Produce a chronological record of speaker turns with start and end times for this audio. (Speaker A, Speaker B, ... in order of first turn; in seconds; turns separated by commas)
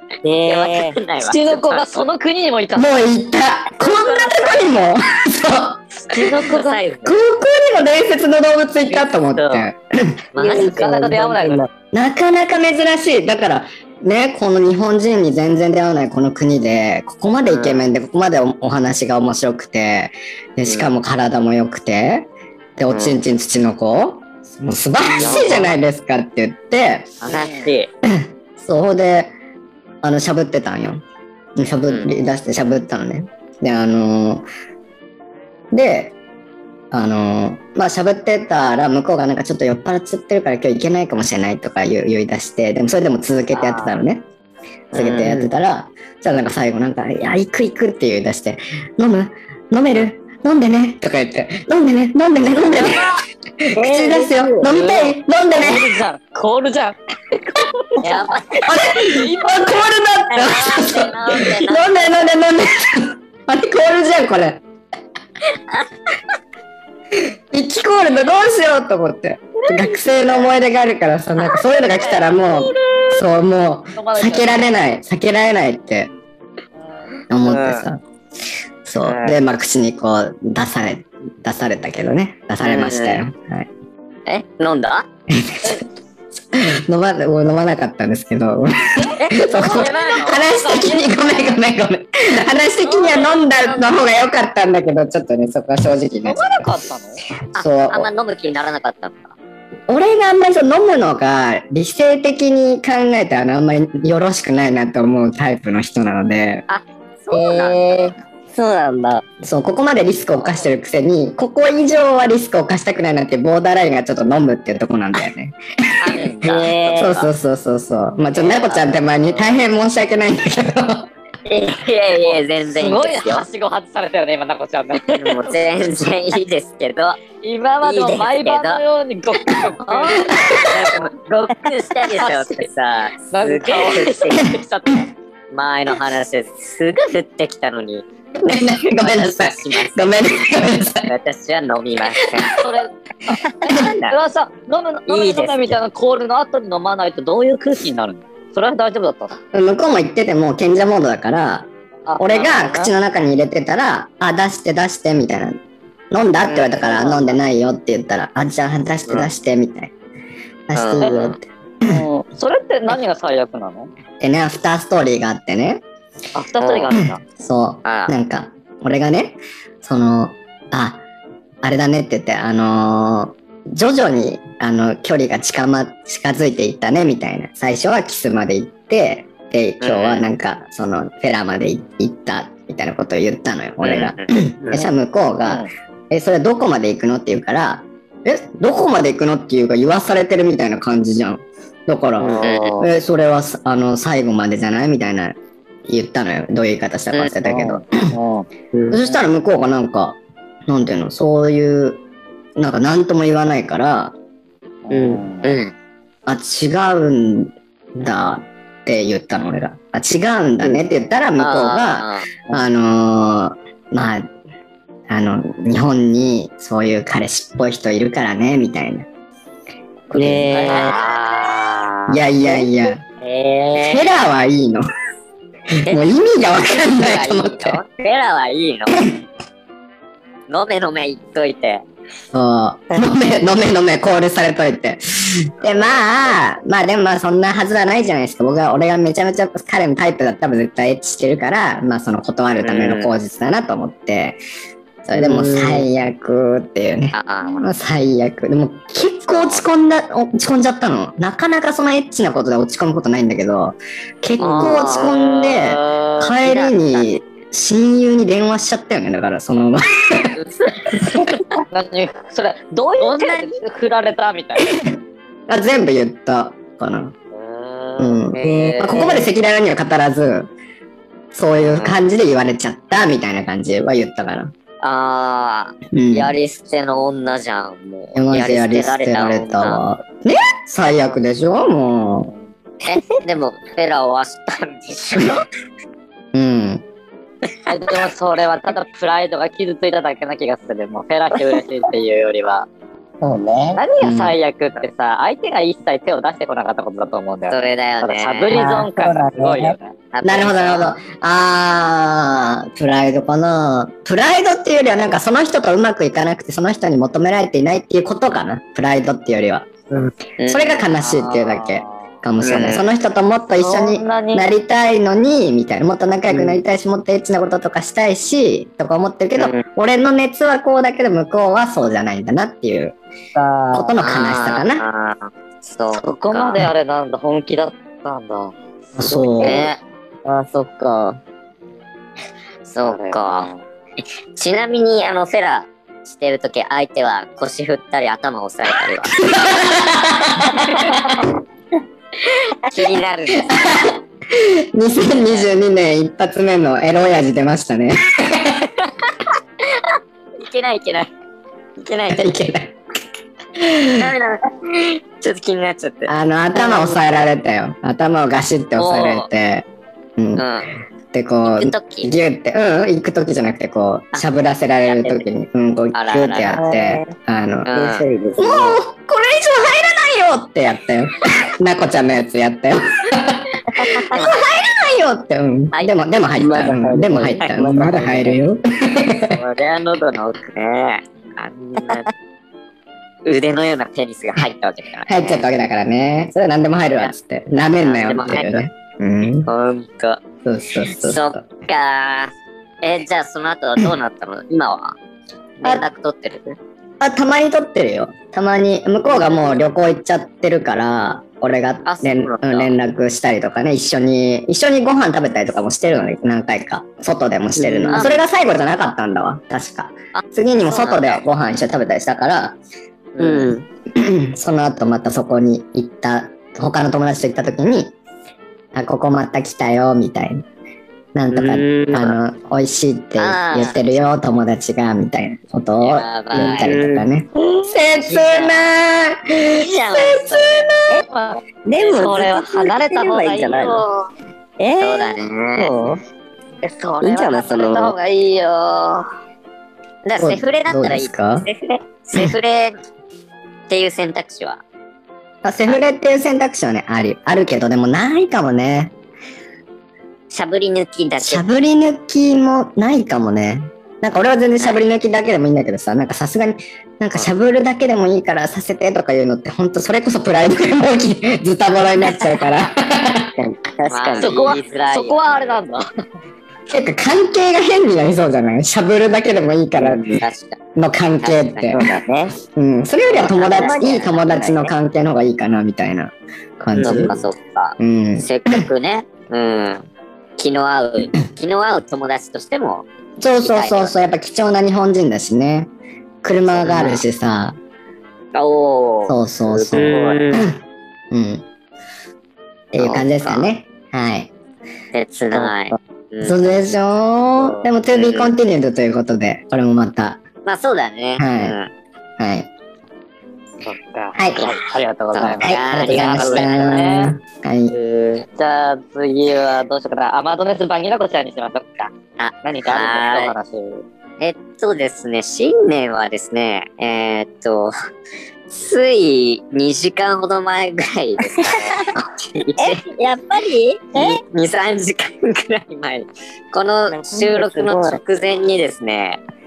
Speaker A: 0.2-1.0, Speaker B: 0.5-2.0, Speaker C: 1.2-3.0, Speaker D: 2.7-6.4, Speaker B: 3.8-4.8, Speaker B: 6.1-7.1, Speaker C: 6.1-6.8, Speaker D: 7.0-10.1, Speaker B: 9.4-9.6, Speaker B: 10.3-10.9, Speaker C: 10.3-11.6, Speaker A: 10.4-11.7, Speaker D: 11.9-27.1, Speaker B: 17.4-17.9, Speaker B: 20.6-20.9, Speaker B: 22.9-23.2, Speaker B: 25.2-25.7, Speaker B: 27.2-27.9, Speaker C: 27.3-27.7, Speaker D: 28.1-29.3, Speaker D: 30.0-31.0, Speaker D: 31.6-34.5, Speaker B: 31.9-32.1, Speaker D: 35.7-36.1, Speaker D: 36.9-44.2, Speaker B: 43.5-44.0, Speaker D: 44.9-55.8, Speaker B: 44.9-45.4, Speaker A: 45.2-45.5, Speaker C: 52.7-53.1, Speaker A: 53.7-54.7, Speaker C: 54.6-59.8, Speaker B: 58.0-58.7, Speaker D: 58.6-64.6, Speaker B: 60.3-62.4, Speaker D: 67.1-76.1, Speaker B: 70.2-70.5, Speaker C: 72.0-73.1, Speaker C: 73.9-74.7, Speaker D: 77.3-78.0, Speaker B: 77.4-77.8, Speaker D: 78.8-83.7, Speaker B: 79.0-79.4, Speaker B: 82.6-83.2, Speaker B: 84.3-85.1, Speaker D: 85.3-85.8, Speaker D: 86.5-96.5, Speaker C: 89.0-91.1, Speaker B: 89.2-90.4, Speaker C: 92.8-93.8, Speaker C: 96.2-97.2, Speaker D: 97.5-98.1, Speaker B: 97.5-99.3, Speaker D: 99.9-106.6, Speaker B: 106.7-108.1, Speaker A: 107.3-109.2, Speaker D: 109.4-116.3, Speaker B: 116.0-117.3, Speaker A: 116.4-117.1, Speaker D: 116.9-121.1, Speaker B: 118.3-119.0, Speaker B: 121.5-123.5, Speaker C: 122.1-125.5, Speaker B: 125.1-127.2, Speaker C: 127.4-131.1, Speaker B: 127.8-128.8, Speaker B: 129.9-140.2, Speaker D: 130.1-130.8, Speaker C: 132.1-132.7, Speaker C: 133.3-134.9, Speaker D: 138.4-141.1, Speaker B: 141.1-142.6, Speaker C: 142.5-149.4, Speaker B: 143.6-144.2, Speaker B: 145.1-145.8, Speaker D: 149.5-155.6, Speaker C: 152.1-152.9, Speaker D: 156.1-159.9, Speaker B: 156.4-157.3, Speaker D: 160.7-162.0, Speaker B: 160.7-161.4, Speaker C: 161.0-161.3, Speaker C: 161.8-163.9, Speaker D: 164.2-165.8, Speaker C: 166.3-167.2, Speaker B: 166.6-167.0, Speaker D: 166.9-171.0, Speaker B: 167.8-168.1, Speaker D: 171.6-195.3, Speaker B: 179.8-180.3, Speaker B: 183.8-184.3, Speaker C: 192.2-192.8, Speaker B: 192.4-192.9, Speaker D: 195.9-198.1, Speaker C: 197.4-198.4, Speaker D: 198.9-202.0, Speaker D: 202.6-204.1, Speaker C: 204.8-205.6, Speaker A: 204.9-205.2, Speaker B: 205.4-205.7, Speaker D: 206.2-214.3, Speaker B: 211.4-212.3, Speaker D: 215.1-219.1, Speaker D: 220.1-220.8, Speaker A: 220.1-220.9, Speaker B: 220.5-222.1, Speaker D: 222.1-223.0, Speaker B: 223.2-224.0, Speaker D: 223.7-224.8, Speaker D: 225.8-227.8, Speaker B: 226.8-229.0, Speaker B: 230.5-231.8, Speaker D: 232.3-244.4, Speaker B: 235.6-236.0, Speaker B: 242.6-243.1, Speaker D: 245.1-260.3, Speaker A: 245.1-245.8, Speaker B: 247.1-247.7, Speaker B: 249.3-249.7, Speaker C: 254.4-256.2, Speaker B: 254.4-255.1, Speaker B: 256.4-257.1, Speaker C: 261.0-264.7, Speaker B: 263.0-263.4, Speaker D: 265.5-267.1, Speaker C: 267.3-269.2, Speaker D: 268.0-270.5, Speaker A: 268.4-269.2, Speaker D: 271.3-274.5, Speaker B: 271.6-272.0, Speaker B: 274.8-279.8, Speaker D: 275.9-276.3, Speaker D: 278.1-282.3, Speaker B: 282.8-285.4, Speaker D: 286.3-286.8, Speaker C: 287.7-292.7, Speaker A: 293.2-293.8, Speaker C: 293.7-299.9, Speaker D: 294.0-294.4, Speaker B: 297.5-298.6, Speaker A: 298.5-299.7, Speaker B: 300.1-300.9, Speaker D: 300.2-309.7, Speaker B: 310.4-310.9, Speaker D: 310.5-322.9, Speaker C: 311.0-312.0, Speaker B: 312.4-312.8, Speaker C: 313.6-314.5, Speaker A: 316.3-316.6, Speaker B: 319.4-319.6, Speaker A: 323.3-324.0, Speaker D: 323.7-324.8, Speaker B: 324.0-326.7, Speaker C: 325.9-328.5, Speaker D: 328.9-329.6, Speaker A: 329.0-329.5, Speaker B: 329.4-329.8, Speaker A: 330.2-331.2, Speaker B: 332.7-333.5, Speaker C: 332.8-333.6, Speaker B: 334.3-339.2, Speaker D: 339.2-341.2, Speaker B: 340.6-341.2, Speaker B: 342.2-343.9, Speaker D: 343.4-348.7, Speaker B: 345.1-345.5, Speaker B: 348.8-351.1, Speaker B: 351.8-352.3, Speaker D: 352.1-352.7, Speaker D: 353.6-354.1, Speaker B: 354.0-356.1, Speaker D: 356.1-359.6, Speaker B: 358.8-359.2, Speaker D: 360.2-360.4, Speaker B: 360.4-360.7, Speaker D: 361.1-367.7, Speaker B: 361.4-362.1, Speaker B: 364.9-365.2, Speaker B: 365.9-366.7, Speaker A: 366.5-367.1, Speaker B: 367.6-368.1, Speaker A: 367.7-368.8, Speaker D: 368.4-379.4, Speaker A: 373.8-374.0, Speaker B: 374.1-374.5, Speaker A: 376.4-378.4, Speaker B: 379.3-382.1, Speaker B: 383.2-385.4, Speaker D: 385.1-389.5, Speaker B: 387.8-388.6, Speaker B: 389.4-390.2, Speaker D: 390.4-391.4, Speaker B: 390.9-394.9, Speaker B: 395.6-396.6, Speaker D: 397.0-412.6, Speaker B: 401.8-402.7, Speaker A: 407.6-408.1, Speaker B: 407.9-408.2, Speaker B: 410.1-411.2, Speaker B: 413.1-413.5, Speaker A: 413.2-413.6, Speaker D: 413.9-417.9, Speaker D: 418.7-420.4, Speaker D: 421.1-431.0, Speaker A: 421.3-422.1, Speaker B: 423.2-423.7, Speaker B: 425.8-426.8, Speaker A: 426.4-427.0, Speaker B: 428.0-428.7, Speaker B: 429.6-430.7, Speaker C: 431.1-433.8, Speaker A: 431.6-433.8, Speaker B: 433.8-434.0, Speaker A: 434.6-436.0, Speaker B: 434.8-435.7, Speaker C: 436.7-438.5, Speaker A: 437.0-437.9, Speaker B: 437.7-438.9, Speaker B: 440.0-442.8, Speaker D: 440.2-441.5, Speaker B: 443.7-444.6, Speaker D: 445.4-448.9, Speaker B: 450.3-451.4, Speaker D: 451.2-463.3, Speaker A: 463.4-464.5, Speaker B: 463.9-465.2, Speaker C: 464.2-465.9, Speaker D: 466.7-470.1, Speaker B: 469.8-470.6, Speaker D: 470.8-471.8, Speaker B: 471.2-472.1, Speaker A: 471.7-472.3, Speaker D: 472.5-477.1, Speaker B: 473.1-474.6, Speaker A: 473.1-474.7, Speaker B: 476.7-479.9, Speaker A: 476.8-477.1, Speaker D: 477.8-478.6, Speaker B: 480.4-482.9, Speaker D: 483.2-485.7, Speaker B: 483.4-483.9, Speaker D: 486.2-487.6, Speaker B: 486.5-487.0, Speaker B: 488.3-489.1, Speaker D: 489.1-490.6, Speaker B: 489.7-490.4, Speaker C: 489.7-490.2, Speaker D: 491.1-491.4, Speaker D: 492.7-494.3, Speaker B: 492.8-493.5, Speaker B: 494.9-496.4, Speaker D: 496.2-500.2, Speaker B: 497.9-498.3, Speaker B: 500.4-501.7, Speaker D: 501.2-501.6, Speaker D: 502.2-502.5, Speaker C: 503.6-507.1, Speaker D: 504.1-504.5, Speaker B: 505.1-506.9, Speaker D: 505.3-507.7, Speaker C: 507.8-511.9, Speaker B: 512.2-513.3, Speaker C: 512.4-513.8, Speaker B: 514.2-517.7, Speaker B: 518.5-522.8, Speaker A: 521.3-521.9, Speaker A: 522.6-524.2, Speaker B: 524.0-529.2, Speaker A: 526.9-528.0